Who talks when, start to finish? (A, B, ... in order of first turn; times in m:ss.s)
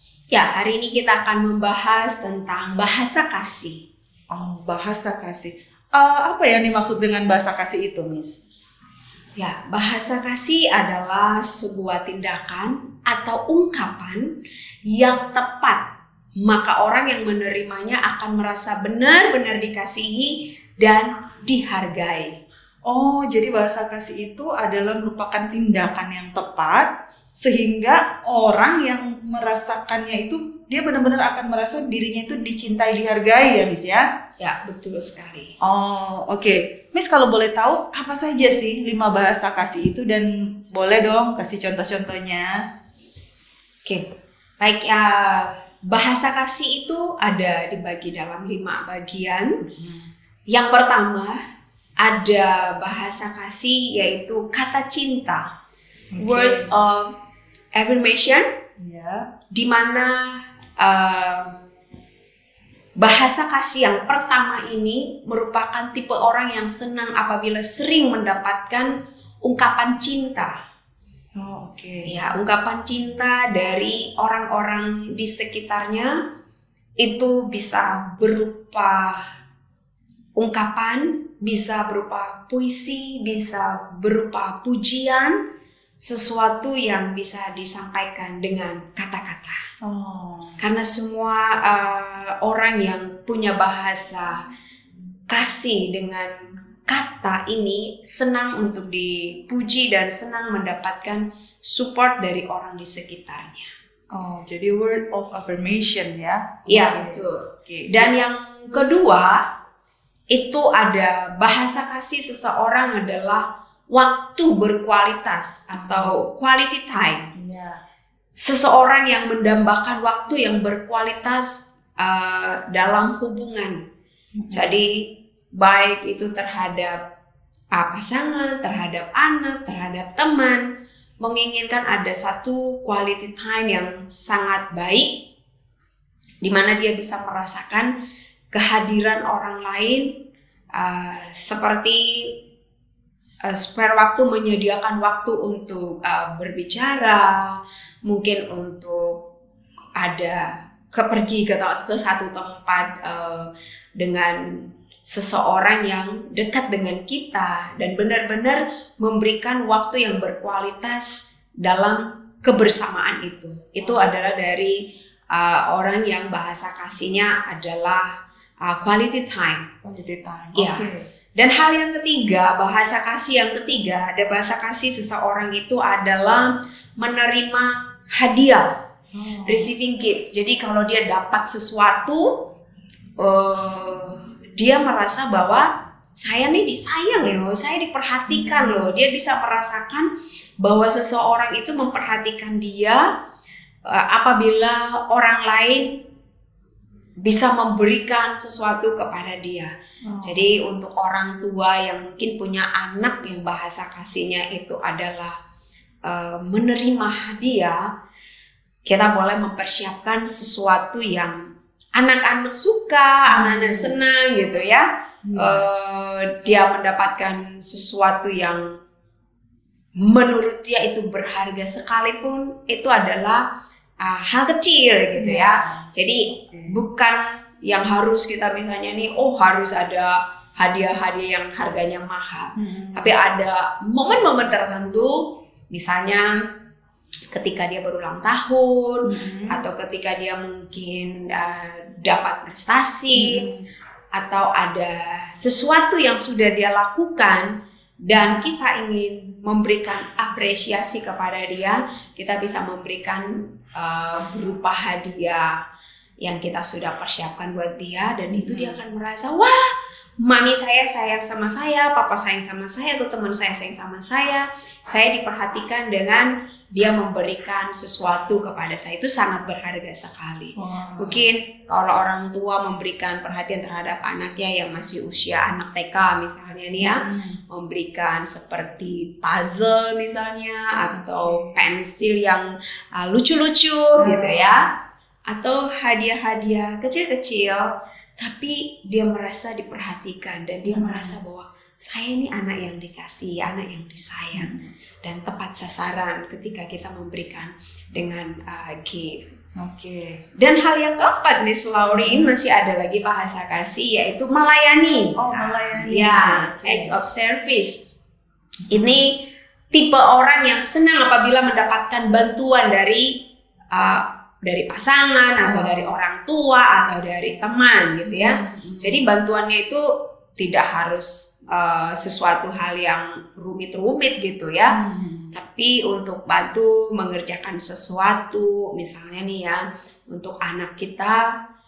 0:00.3-0:03.8 A
0:04.3-0:08.4 B
0:09.4-0:14.3 A
0:14.9-0:15.8 A
0:16.4-0:22.3 A
0:22.8-0:34.0 B
0:34.4-0:35.5 A
0:35.6-0:42.5 B
0:44.6-0:49.5 A
0:49.7-0:50.1 B
0:50.5-0:51.3 A
0:52.0-0:55.4 A
0:56.1-0:56.8 B
0:56.2-0:57.1 A
0:57.7-0:58.4 A
0:58.8-0:59.3 B
0:59.5-1:00.1 A
1:00.8-1:01.5 A
1:03.0-1:08.9 A
1:09.4-1:10.5 A
1:11.4-1:12.2 B
1:12.0-1:16.1 A
1:17.0-1:19.2 A
1:20.4-1:25.3 A
1:26.0-1:29.6 A
1:29.8-1:30.6 B
1:30.6-1:34.4 A
1:35.3-1:36.3 A
1:36.8-1:43.7 A
1:44.1-1:48.0 B
1:46.7-1:49.4 A
1:50.3-1:57.3 A
1:55.8-1:56.2 B
1:57.4-1:57.8 B
1:58.4-2:03.8 A
2:04.4-2:04.8 B
2:04.5-2:05.0 A
2:05.6-2:07.0 A
2:07.7-2:10.6 A
2:11.2-2:15.1 A
2:16.4-2:17.9 A
2:18.5-2:20.1 A
2:20.8-2:22.3 A
2:23.5-2:29.2 A
2:30.0-2:44.8 A
2:45.3-2:48.1 A
2:48.6-2:49.7 A
2:49.8-2:51.0 B
2:50.5-2:58.7 A
2:59.1-2:59.7 B
2:59.4-3:02.2 A
3:03.2-3:10.1 A
3:08.3-3:08.9 B
3:10.6-3:13.0 A
3:13.9-3:16.0 A
3:17.2-3:19.7 A
3:20.1-3:20.5 B
3:20.2-3:25.3 A
3:26.0-3:27.8 A
3:28.8-3:31.4 A
3:32.0-3:34.8 A
3:33.3-3:34.0 B
3:35.2-3:35.6 B
3:35.4-3:38.6 A
3:40.0-3:43.4 A
3:44.0-3:56.3 A
3:45.2-3:46.8 B
3:52.6-3:53.1 B
3:57.3-4:03.4 A
3:59.1-3:59.6 B
4:03.1-4:03.6 B
4:04.1-4:07.5 A
4:08.0-4:15.5 A
4:16.2-4:19.7 A
4:18.3-4:18.8 B
4:20.2-4:42.4 A
4:30.6-4:31.3 B
4:36.8-4:37.4 B
4:40.9-4:41.7 B
4:43.0-4:44.7 A
4:44.0-4:44.6 B
4:45.3-4:47.7 A
4:48.2-4:54.5 A
4:50.7-4:51.2 B
4:54.3-4:54.7 B
4:55.0-4:59.2 A
4:59.6-5:00.2 B
5:00.4-5:07.8 A
5:01.9-5:02.4 B
5:05.2-5:07.0 B
5:08.7-5:09.0 B
5:08.7-5:09.2 A
5:09.7-5:13.1 A
5:13.7-5:19.8 A
5:15.4-5:15.9 B
5:18.0-5:19.0 B
5:20.4-5:24.8 A
5:24.7-5:25.4 B
5:25.3-5:31.2 A